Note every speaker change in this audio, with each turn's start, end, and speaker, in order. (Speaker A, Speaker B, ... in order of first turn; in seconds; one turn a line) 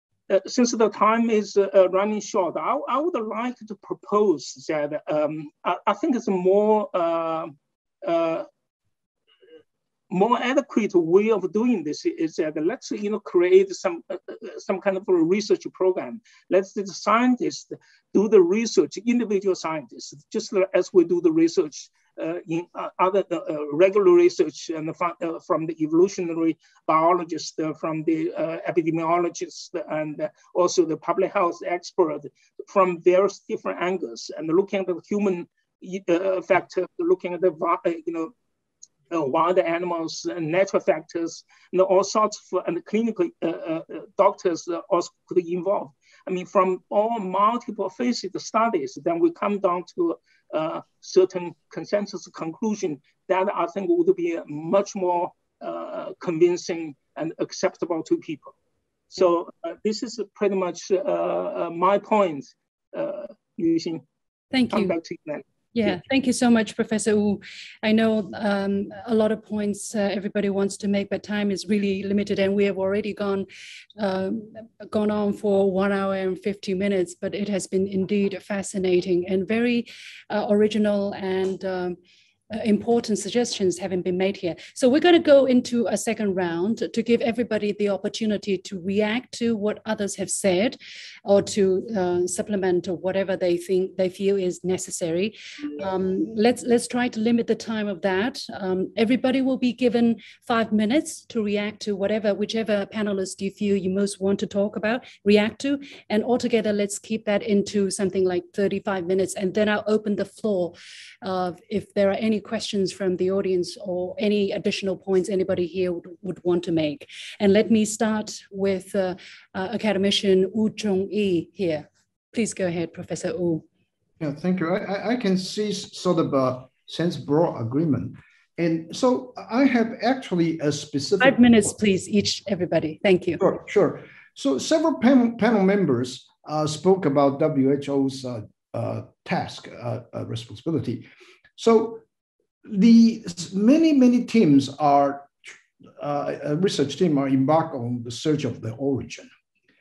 Speaker A: 0.3-8.5
Speaker A: 10.1-38.3
Speaker A: 39.1-58.5
Speaker A: 59.1-64.0
Speaker B: 64.5-64.9
Speaker A: 64.7-65.4
Speaker B: 65.7-73.5
Speaker B: 74.0-82.0
Speaker B: 82.5-123.6
Speaker C: 124.2-131.4
Speaker B: 131.2-133.4
Speaker C: 133.4-142.0
Speaker C: 142.7-145.4
Speaker C: 146.0-149.3